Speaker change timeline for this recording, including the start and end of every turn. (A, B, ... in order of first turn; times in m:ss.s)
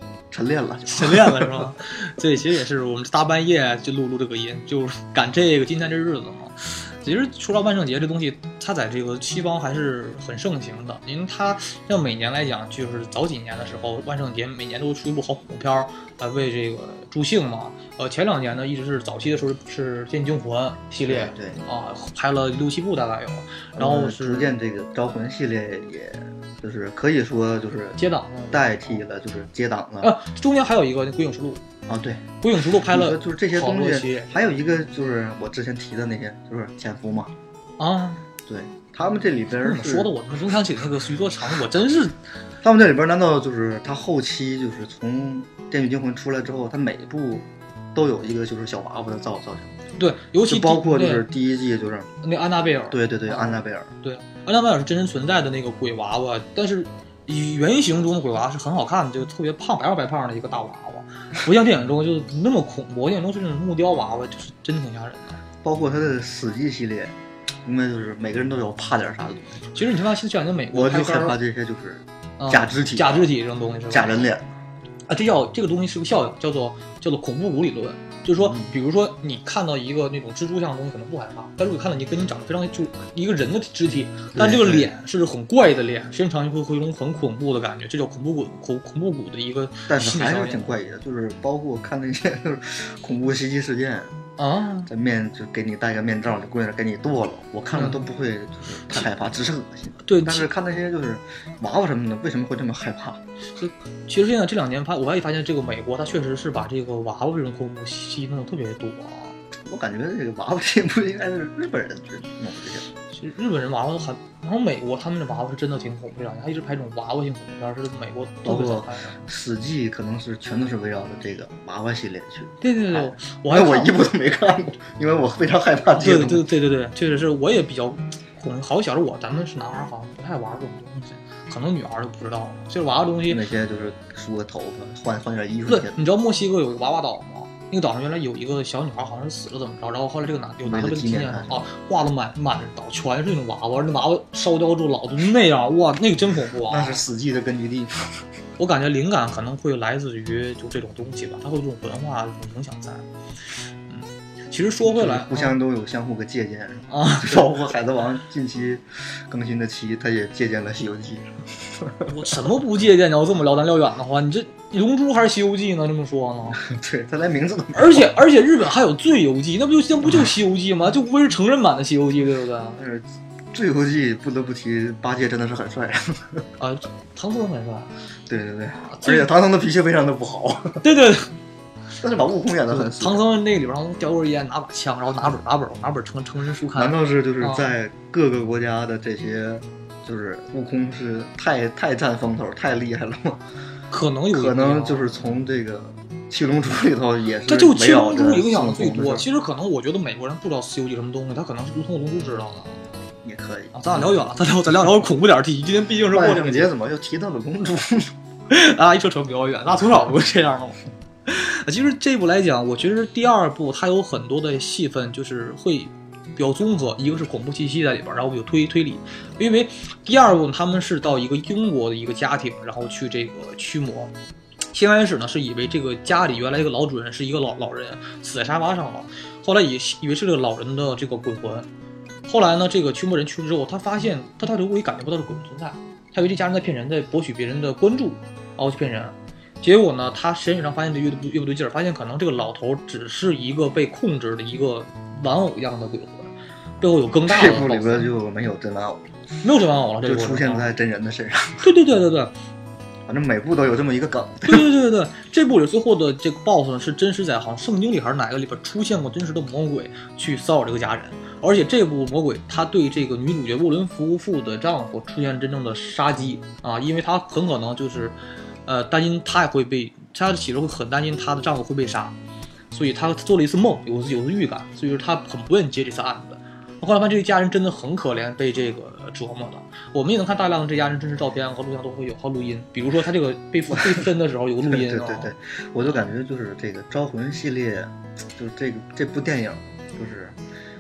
0:00.3-0:01.7 A
0:00.9-0:24.5 B
0:21.1-0:21.6 A
0:23.8-0:30.1 A
0:28.0-0:29.0 B
0:30.0-0:31.6 B
0:31.9-0:37.3 A
0:32.4-0:34.3 B
0:37.8-0:38.2 B
0:38.4-0:40.1 A
0:39.6-0:42.2 B
0:42.6-0:49.8 A
0:50.0-0:51.3 B
0:50.5-0:52.1 A
0:52.2-1:05.4 B
0:52.9-0:53.9 A
1:05.6-1:09.7 A
1:09.7-1:11.4 B
1:10.7-1:13.3 A
1:12.4-1:14.3 B
1:13.9-1:14.5 A
1:15.1-1:30.8 B
1:18.4-1:18.7 A
1:24.4-1:24.9 A
1:29.9-1:34.1 A
1:34.4-1:34.9 B
1:34.9-1:43.2 A
1:37.7-1:38.0 B
1:40.0-1:40.5 B
1:43.6-1:49.4 B
1:49.6-1:52.9 A
1:53.1-1:59.2 B
1:58.4-2:06.5 A
2:02.6-2:04.0 B
2:06.0-2:13.4 B
2:13.3-2:16.0 A
2:15.7-2:27.0 B
2:20.6-2:21.7 A
2:26.7-2:28.2 A
2:28.6-2:33.0 B
2:33.9-2:35.6 B
2:34.8-2:42.2 A
2:36.9-2:37.5 B
2:42.1-2:46.6 B
2:46.6-2:48.1 A
2:47.7-2:52.8 B
2:52.8-2:56.4 A
2:56.6-2:57.9 B
2:58.3-3:00.8 A
2:58.8-2:59.3 B
3:00.8-3:01.3 B
3:02.0-3:03.2 A
3:02.7-3:07.7 B
3:06.8-3:13.4 A
3:13.9-3:15.2 B
3:14.3-3:19.2 A
3:17.5-3:22.9 B
3:23.2-3:24.3 A
3:23.7-3:26.7 B
3:26.1-3:28.1 A
3:28.5-3:44.1 B
3:44.7-3:51.7 B
3:52.3-4:08.1 B
4:07.3-4:09.1 A
4:09.4-4:10.7 B
4:10.0-4:11.7 A
4:11.6-4:12.3 B
4:13.1-4:14.7 A
4:14.5-4:32.2 B
4:32.7-4:45.3 B
4:43.7-4:44.0 A
4:44.6-4:50.4 A